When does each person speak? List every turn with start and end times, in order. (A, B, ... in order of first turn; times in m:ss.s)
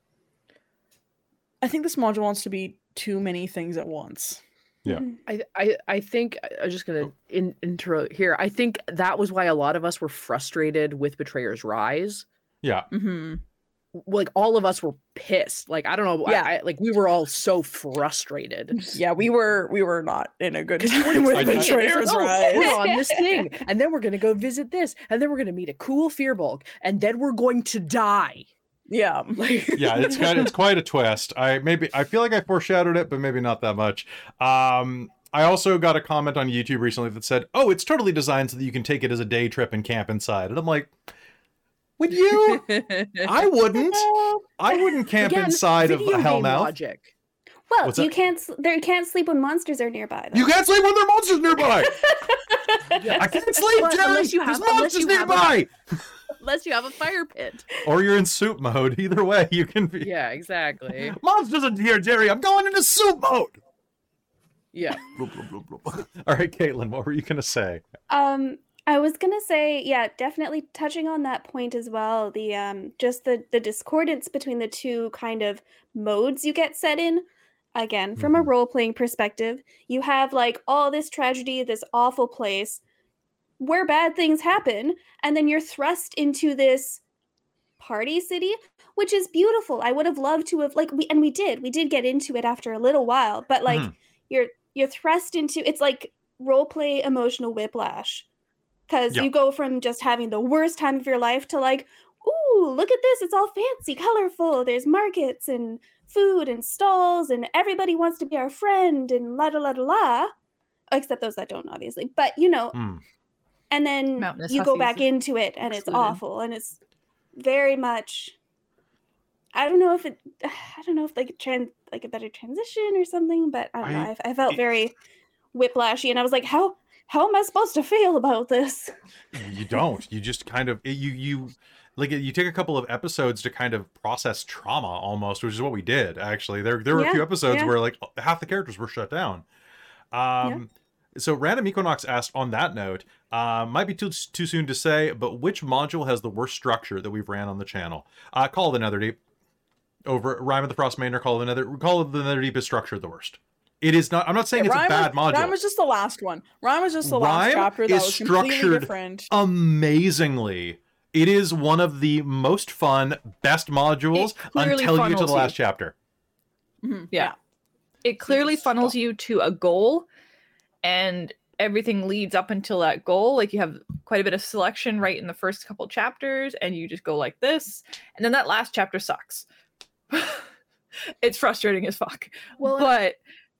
0:01.6-0:04.4 A
0:04.9-0:05.2 B
0:05.3-0:12.2 C
0:12.6-0:12.9 D
0:12.9-0:13.4 A
0:13.9-0:19.0 C
0:16.2-0:16.5 A
0:18.7-0:22.8 A
0:20.8-0:28.5 C
0:21.3-0:22.2 D
0:22.5-0:23.5 B
0:28.9-0:30.5 A
0:29.8-0:40.9 D
0:42.0-0:46.7 D
0:42.3-0:43.3 C
0:43.7-0:44.8 B
0:45.2-0:47.1 C
0:47.7-0:50.5 B
0:47.8-0:48.1 D
0:50.3-0:52.0 D
0:51.6-0:53.3 B
0:53.0-0:55.6 C
0:53.2-0:55.7 D
0:56.4-0:57.7 C
0:57.8-1:00.1 D
1:00.0-1:01.2 C
1:01.1-1:03.6 D
1:04.7-1:05.1 C
1:05.0-1:07.8 D
1:08.1-1:22.8 B
1:18.2-1:18.4 D
1:23.6-1:27.0 B
1:27.8-1:38.3 B
1:33.7-1:33.9 D
1:38.9-1:50.3 B
1:50.9-1:52.8 B
1:52.7-1:53.0 D
1:53.7-1:56.8 B
1:54.2-1:55.1 E
1:57.4-1:58.4 B
1:59.5-2:04.9 B
2:03.8-2:04.6 D
2:05.5-2:08.9 B
2:09.3-2:19.4 D
2:16.9-2:17.8 B
2:20.1-2:29.2 D
2:30.1-2:35.6 D
2:34.5-2:39.3 A
2:37.0-2:46.0 D
2:44.1-2:45.6 E
2:46.8-2:47.4 A
2:48.0-2:50.1 E
2:48.3-2:48.9 A
2:50.8-2:59.5 E
3:00.1-3:00.4 E
3:01.2-3:03.2 E
3:02.6-3:02.9 C